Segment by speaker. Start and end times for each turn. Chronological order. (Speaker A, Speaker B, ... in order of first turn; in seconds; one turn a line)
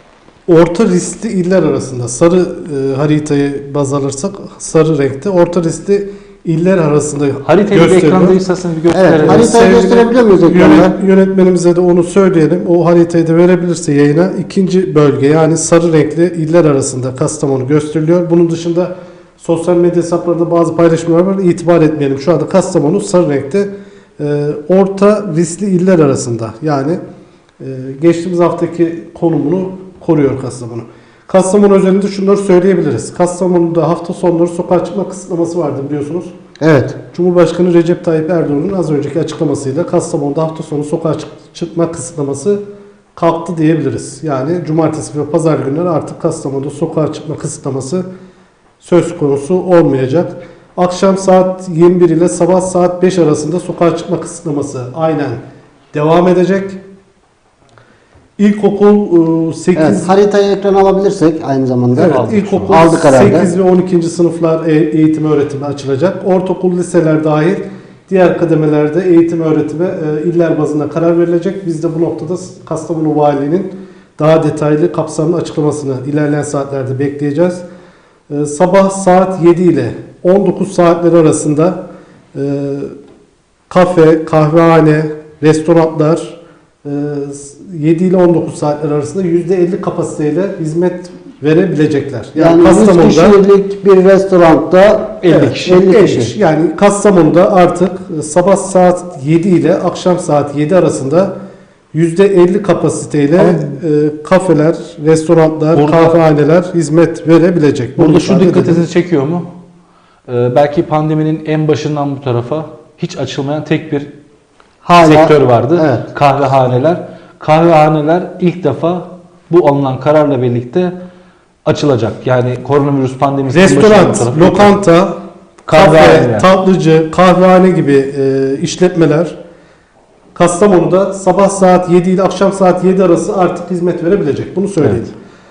Speaker A: 0.5-8.4
Speaker B: 7.4-9.5
Speaker C: 8.9-10.9
Speaker A: 9.2-27.0
Speaker A: 27.6-36.3
Speaker C: 36.6-37.0
Speaker A: 37.1-42.6
Speaker A: 43.1-48.0
Speaker A: 48.8-55.4
Speaker A: 55.9-56.8
Speaker A: 58.4-60.1
Speaker C: 59.8-63.5
Speaker A: 61.9-77.6
Speaker B: 62.0-62.8
Speaker A: 78.3-82.9
Speaker A: 83.7-93.4
Speaker C: 92.3-96.3
Speaker B: 95.2-95.8
Speaker A: 95.2-101.3
Speaker A: 101.9-108.8
Speaker B: 103.3-103.7
Speaker B: 105.7-106.2
Speaker B: 108.0-109.5
Speaker B: 110.3-114.1
Speaker C: 114.8-116.0
Speaker B: 115.0-121.0
Speaker B: 121.7-124.8
Speaker A: 123.5-125.2
Speaker B: 125.7-126.5
Speaker A: 125.7-129.4
Speaker A: 130.3-135.1